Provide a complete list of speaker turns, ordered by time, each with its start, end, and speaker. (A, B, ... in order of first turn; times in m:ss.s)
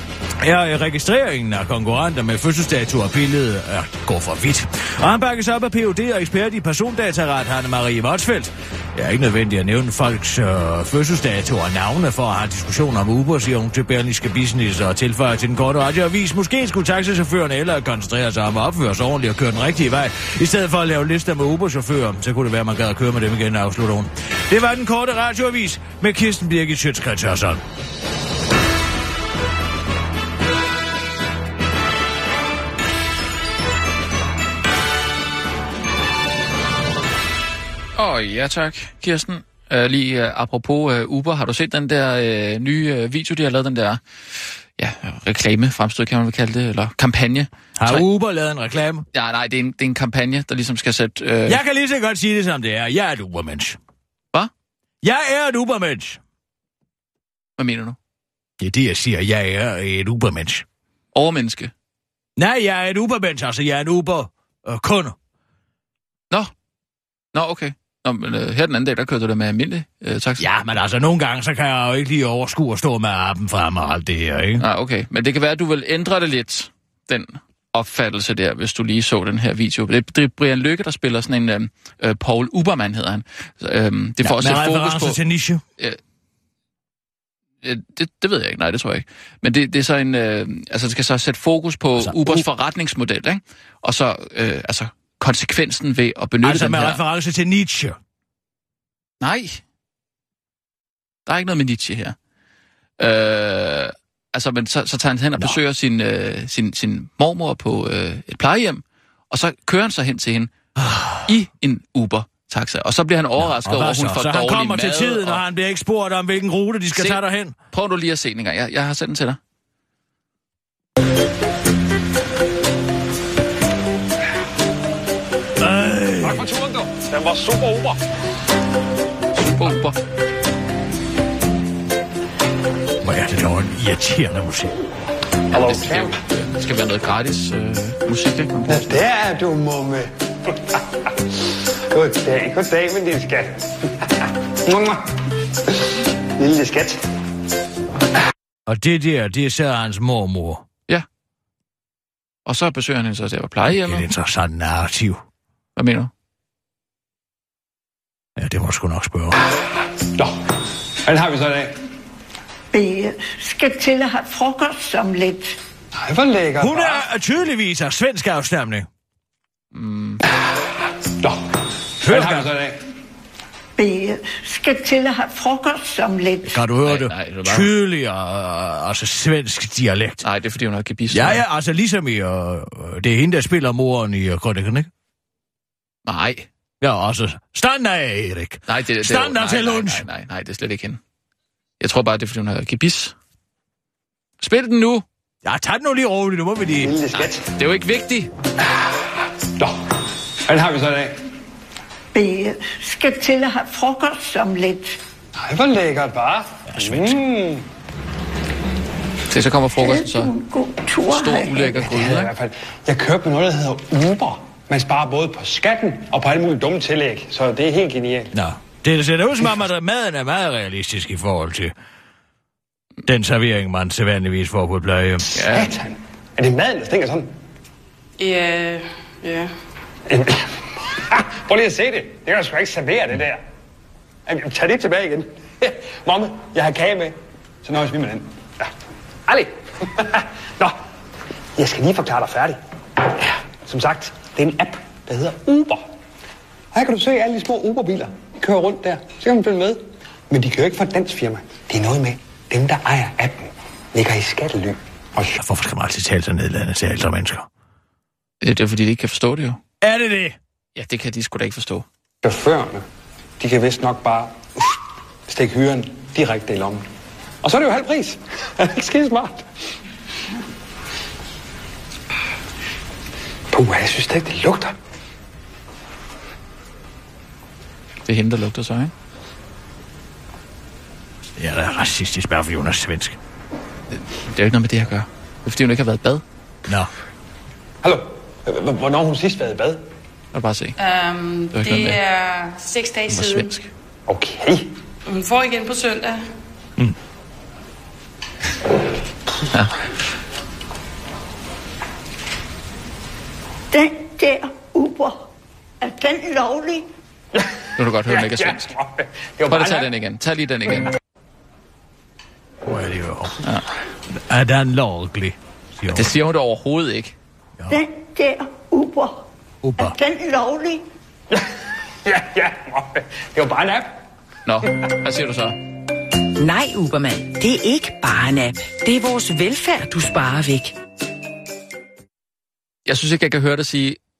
0:00.4-0:27.6 A
0:38.0-0:48.0 B
0:47.8-0:49.0 A
0:49.1-0:51.6 B
0:51.5-0:53.8 A
0:55.0-0:56.2 A
0:57.6-0:58.0 B
0:58.6-1:00.6 A
1:01.1-1:01.7 B
1:02.4-1:05.1 A
1:07.3-1:10.4 B
1:10.4-1:14.6 A
1:14.6-1:25.2 B
1:24.2-1:25.6 A
1:27.6-1:37.0 B
1:32.0-1:32.4 A
1:36.4-1:38.0 A
1:39.2-1:39.6 B
1:41.2-1:42.1 B
1:43.0-1:50.5 B
1:50.8-1:51.2 A
1:51.2-1:55.4 B
1:53.4-1:57.5 A
1:56.9-1:59.4 B
2:05.6-2:06.5 A
2:06.2-2:08.0 C
2:09.3-2:10.0 B
2:13.0-2:14.7 A
2:15.5-2:19.0 B
2:15.5-2:16.2 C
2:18.7-2:20.8 C
2:21.9-2:25.0 C
2:26.4-2:27.0 C
2:28.7-2:30.6 A
2:32.4-2:34.1 B
2:33.6-2:35.2 A
2:35.8-2:36.1 B
2:38.4-2:39.4 A
2:41.0-2:41.7 C
2:42.7-2:45.6 D
2:46.0-2:47.0 C
2:46.6-2:48.9 A
2:49.7-2:50.2 B
2:52.0-2:52.8 C
2:52.0-2:52.5 A
2:53.8-2:56.6 D
2:56.4-3:00.2 A
2:56.8-2:57.7 B
3:00.2-3:01.4 B
3:01.1-3:04.9 A
3:06.0-3:06.5 B
3:06.8-3:10.0 A
3:08.7-3:11.0 B
3:11.8-3:13.1 B
3:14.4-3:15.0 B
3:15.4-3:16.9 A
3:16.8-3:17.5 C
3:17.1-3:18.3 B
3:20.5-3:21.1 C
3:22.1-3:25.0 D
3:25.4-3:27.6 C
3:26.7-3:27.2 A
3:29.3-3:30.3 B
3:29.8-3:31.7 D
3:31.1-3:32.3 B
3:31.7-3:38.3 C
3:38.3-3:41.7 A
3:43.0-3:45.2 A
3:45.3-3:45.7 B
3:45.3-3:47.3 C
3:48.2-3:49.5 E
3:50.1-3:53.4 C
3:54.3-3:58.7 C
3:59.3-4:00.8 C
4:01.6-4:05.8 C
4:06.7-4:15.4 C
4:15.4-4:17.5 A
4:18.4-4:19.6 B
4:19.8-4:20.4 A
4:20.7-4:21.8 B
4:22.2-4:22.8 C
4:23.4-4:24.7 C
4:25.3-4:26.8 C
4:27.4-4:29.4 C
4:33.5-4:34.8 C
4:38.0-4:38.9 B
4:41.4-4:43.2 A
4:43.9-4:46.2 B
4:47.8-4:49.8 C
4:50.3-4:50.8 B
4:50.8-4:53.5 E
4:51.5-4:52.0 B
4:53.1-4:53.7 B
4:54.1-4:54.7 C
4:55.1-4:56.2 E
5:03.7-5:05.2 D
5:05.8-5:06.9 D
5:07.8-5:08.7 B
5:08.0-5:09.9 C
5:09.5-5:10.9 B
5:12.6-5:13.4 A
5:14.2-5:16.1 A
5:15.9-5:17.2 B
5:17.7-5:19.2 D
5:19.6-5:20.0 A
5:19.8-5:20.8 D
5:22.0-5:24.0 C
5:24.4-5:25.6 B
5:26.4-5:30.8 F
5:32.8-5:34.0 B